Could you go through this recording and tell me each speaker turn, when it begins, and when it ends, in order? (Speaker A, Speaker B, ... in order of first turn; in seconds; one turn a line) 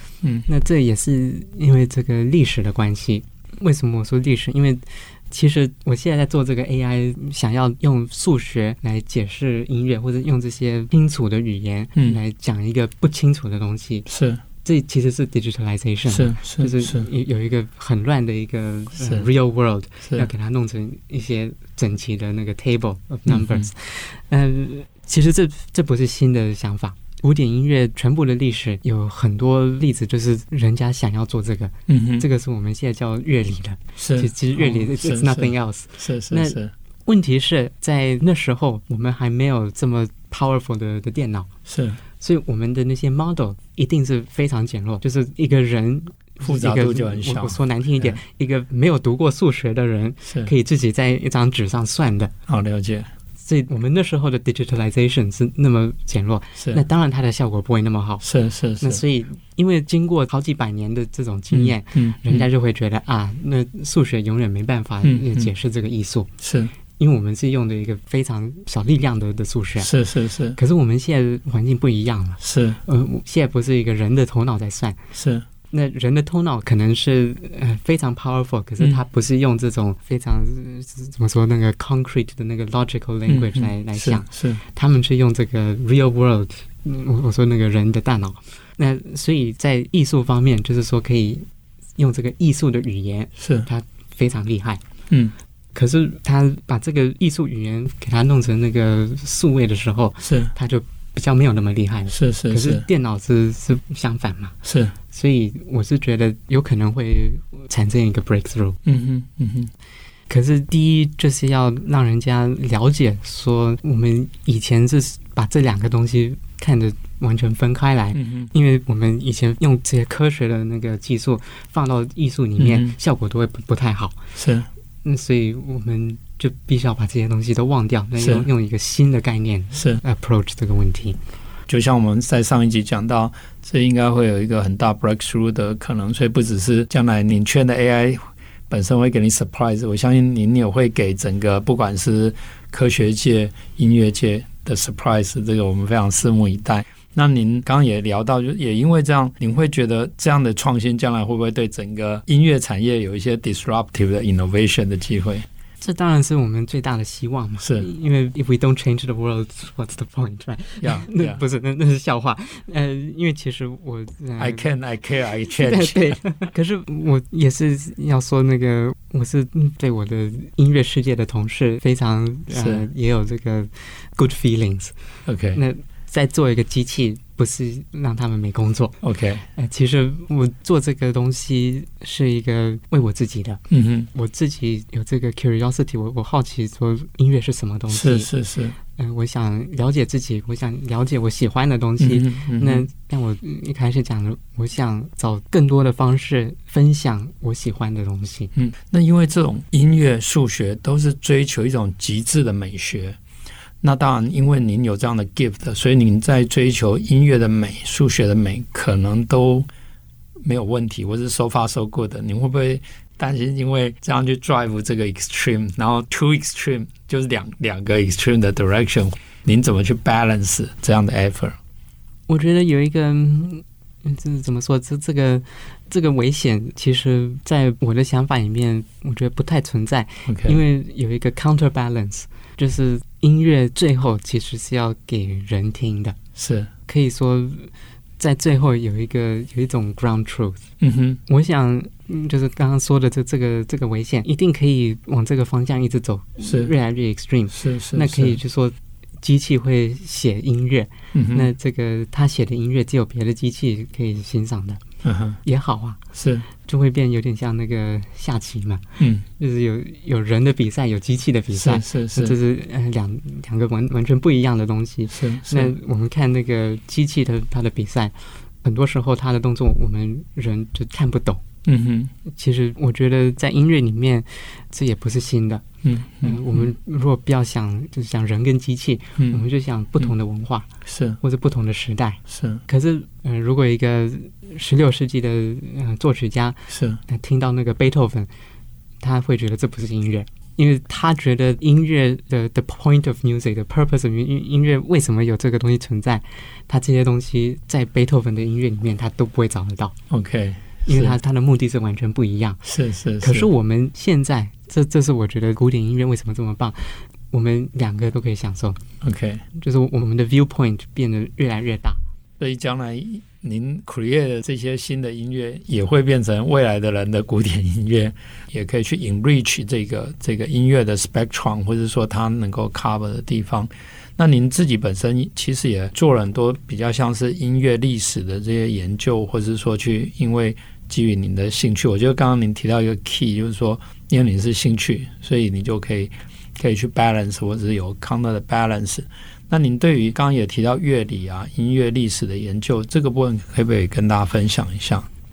Speaker A: 0.5-14.1
Speaker B: 14.1-14.4
Speaker A: 14.6-41.5
Speaker B: 16.1-17.1
Speaker B: 19.0-19.3
Speaker B: 23.3-23.7
Speaker B: 31.9-32.3
Speaker B: 34.0-36.7
Speaker B: 41.7-42.0
Speaker A: 42.2-52.3
Speaker B: 46.4-48.2
Speaker B: 50.2-50.5
Speaker B: 52.5-53.1
Speaker A: 53.4-58.3
Speaker B: 56.5-56.8
Speaker B: 58.2-59.0
Speaker A: 58.8-66.3
Speaker B: 61.5-62.5
Speaker B: 65.0-65.5
Speaker B: 66.4-66.7
Speaker A: 67.0-69.9
Speaker B: 69.8-70.6
Speaker A: 70.5-75.0
Speaker B: 72.4-72.8
Speaker B: 75.1-75.5
Speaker A: 75.7-91.5
Speaker B: 83.3-84.6
Speaker A: 92.0-94.8
Speaker B: 93.4-93.7
Speaker A: 95.7-104.5
Speaker B: 100.2-100.5
Speaker B: 102.1-102.8
Speaker B: 104.6-104.9
Speaker A: 105.1-108.8
Speaker B: 108.8-109.7
Speaker A: 110.3-124.2
Speaker B: 118.1-118.5
Speaker B: 122.6-122.9
Speaker B: 124.3-124.7
Speaker A: 125.0-131.2
Speaker B: 128.2-128.5
Speaker B: 129.7-130.0
Speaker B: 131.7-155.4
Speaker A: 155.8-164.7
Speaker B: 157.6-157.9
Speaker B: 160.8-161.4
Speaker B: 164.4-166.2
Speaker A: 165.3-174.9
Speaker B: 172.5-172.9
Speaker B: 175.2-175.6
Speaker A: 175.5-179.0
Speaker B: 179.0-179.4
Speaker A: 179.5-188.3
Speaker B: 183.7-184.1
Speaker B: 187.9-188.8
Speaker A: 188.9-198.5
Speaker B: 192.0-192.9
Speaker B: 198.5-203.2
Speaker B: 203.8-209.7
Speaker B: 210.4-221.6
Speaker A: 222.3-236.2
Speaker B: 230.2-230.6
Speaker B: 236.3-236.7
Speaker A: 236.9-240.6
Speaker B: 240.8-241.2
Speaker A: 241.3-254.8
Speaker B: 246.4-246.7
Speaker B: 247.5-248.4
Speaker B: 251.1-251.5
Speaker B: 255.0-255.4
Speaker A: 255.4-256.0
Speaker B: 256.1-256.5
Speaker A: 256.6-258.8
Speaker B: 259.0-259.2
Speaker A: 259.4-271.4
Speaker B: 261.5-262.4
Speaker B: 265.1-265.7
Speaker B: 271.6-272.1
Speaker A: 272.2-275.6
Speaker B: 275.8-276.7
Speaker A: 276.2-280.7
Speaker B: 279.2-279.4
Speaker B: 280.8-281.2
Speaker A: 281.2-288.3
Speaker B: 282.3-282.6
Speaker B: 286.7-287.0
Speaker A: 289.0-299.9
Speaker B: 300.1-301.2
Speaker A: 300.9-302.6
Speaker B: 302.6-303.5
Speaker A: 303.2-308.8
Speaker B: 309.0-309.4
Speaker A: 309.5-312.0
Speaker B: 312.4-345.1